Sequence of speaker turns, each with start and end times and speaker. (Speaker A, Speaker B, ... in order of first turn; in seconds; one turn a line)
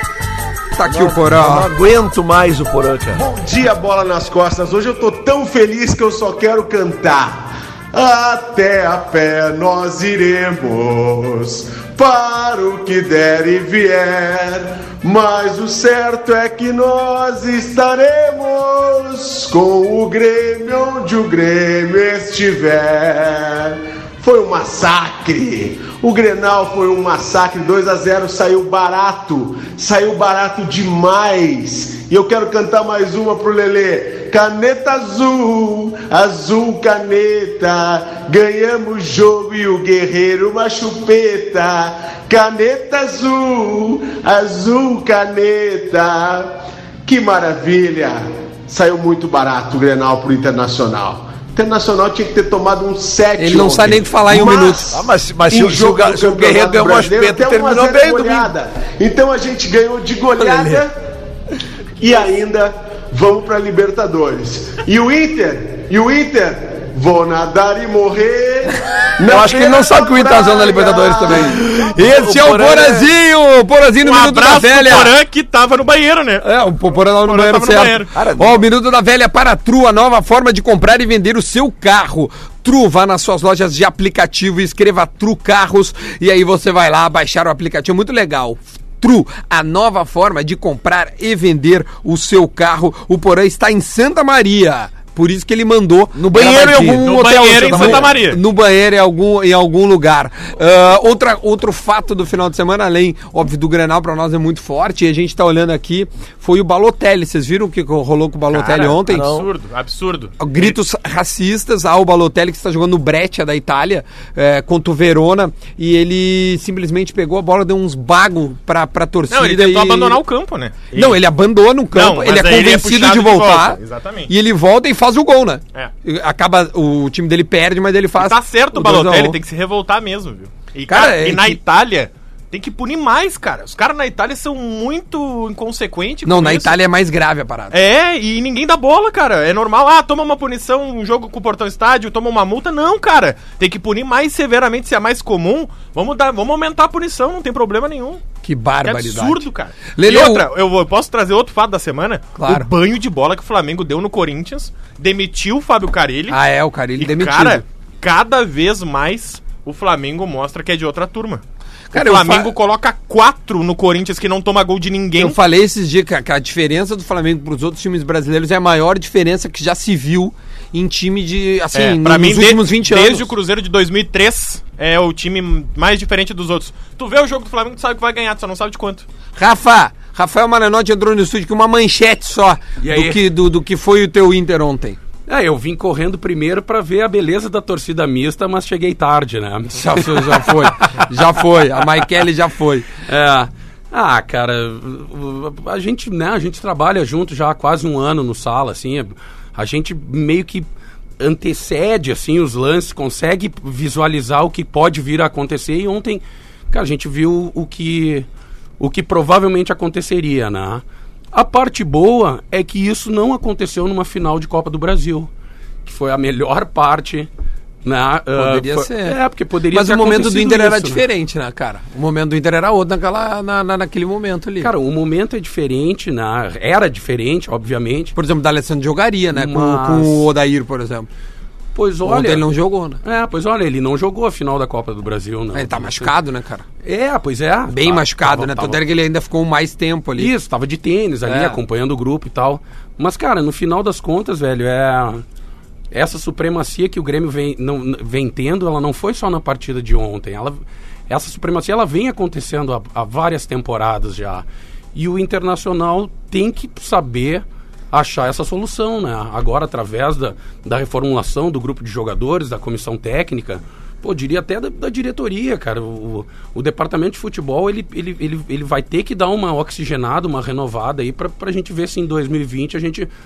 Speaker A: 0.7-1.7
Speaker B: 0.8-3.2
Speaker C: 3.1-54.8
Speaker A: 53.4-55.1
Speaker B: 54.3-58.5
Speaker C: 55.5-60.9
Speaker B: 60.3-60.9
Speaker C: 62.0-71.6
Speaker B: 69.2-73.1
Speaker A: 71.3-75.1
Speaker D: 74.0-76.5
Speaker A: 76.4-109.4
Speaker D: 77.2-78.1
Speaker B: 78.1-78.7
Speaker B: 96.1-98.2
Speaker D: 96.9-98.4
Speaker D: 108.5-110.8
Speaker B: 109.1-109.5
Speaker A: 110.4-120.2
Speaker D: 119.3-121.2
Speaker A: 120.9-129.4
Speaker D: 121.9-124.3
Speaker D: 128.2-136.8
Speaker A: 130.9-131.6
Speaker A: 136.2-137.8
Speaker D: 137.7-148.2
Speaker A: 148.4-150.4
Speaker D: 148.8-156.4
Speaker A: 152.4-152.7
Speaker A: 156.3-157.6
Speaker D: 156.9-165.4
Speaker A: 161.9-162.5
Speaker A: 165.2-173.3
Speaker D: 171.7-179.1
Speaker A: 179.3-185.0
Speaker E: 182.8-183.2
Speaker E: 185.3-191.0
Speaker A: 189.7-192.9
Speaker E: 193.1-200.7
Speaker E: 201.2-208.3
Speaker E: 208.8-210.8
Speaker E: 211.3-215.3
Speaker E: 215.8-217.3
Speaker E: 217.8-221.0
Speaker A: 218.3-224.7
Speaker E: 224.6-228.1
Speaker A: 228.1-231.1
Speaker E: 229.3-230.3
Speaker E: 231.7-232.4
Speaker A: 232.0-233.0
Speaker E: 233.0-236.1
Speaker A: 235.5-236.6
Speaker E: 236.8-238.8
Speaker A: 237.7-240.3
Speaker E: 240.2-245.2
Speaker A: 241.3-241.6
Speaker E: 245.9-273.1